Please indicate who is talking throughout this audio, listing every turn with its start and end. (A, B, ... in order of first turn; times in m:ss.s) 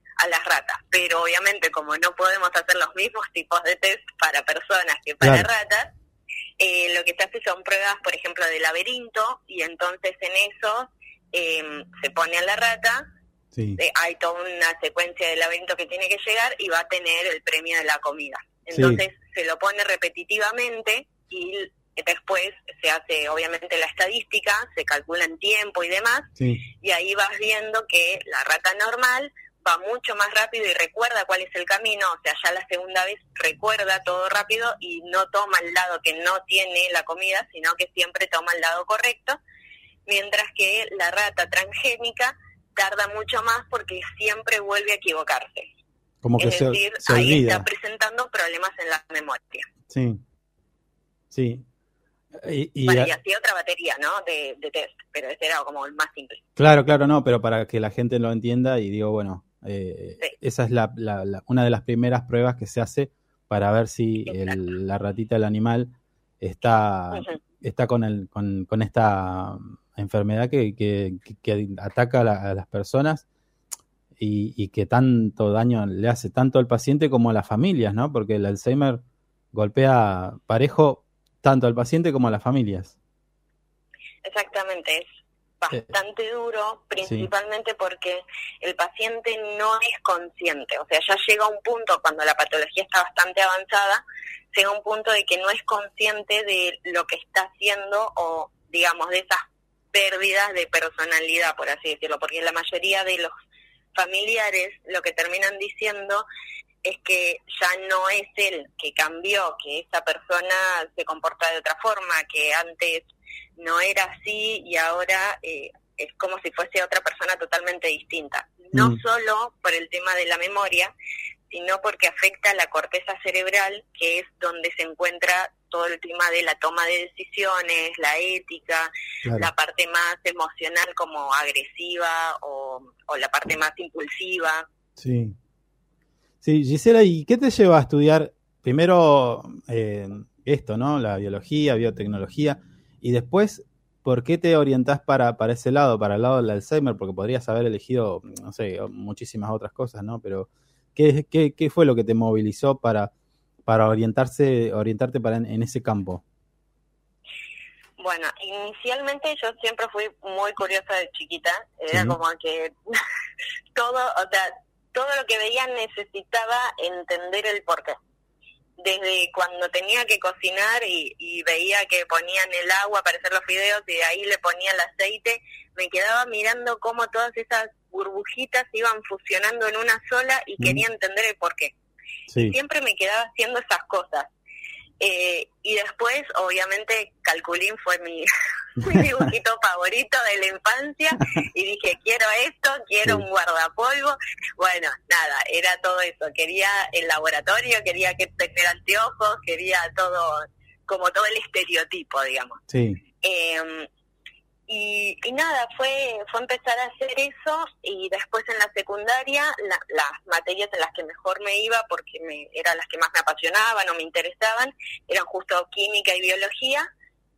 0:00.2-0:05.9 A
0:05.2-0:05.5 B
0:06.6-0:13.0 A
0:13.5-0:13.8 B
0:13.8-0:39.4 A
0:18.7-0:19.0 B
0:26.4-0:26.6 B
0:40.0-0:45.7 A
0:46.2-0:47.7 B
0:46.4-0:49.7 A
0:49.9-0:50.2 B
0:51.3-0:51.6 B
0:52.3-0:53.1 B
0:52.8-0:56.4 A
0:56.6-1:13.2 B
1:04.3-1:04.6 A
1:07.1-1:07.4 A
1:14.2-1:19.0 B
1:19.5-1:22.9 B
1:24.2-1:25.0 A
1:25.6-1:43.3 A
1:27.0-1:27.3 B
1:43.9-1:46.2 A
1:46.8-2:00.9 A
1:58.7-1:59.0 B
2:01.5-2:14.7 A
2:09.2-2:09.5 B
2:15.0-2:15.4 B
2:16.4-2:33.1 B
2:33.6-2:36.2 B
2:38.0-2:43.0 A
2:41.9-2:42.2 B
2:43.7-2:48.0 A
2:48.8-3:01.7 A
3:00.6-3:00.8 B
3:02.3-3:02.6 B
3:02.4-3:04.3 A
3:05.0-3:22.6 A
3:22.7-3:23.0 B
3:23.2-3:23.9 A
3:24.7-3:36.9 A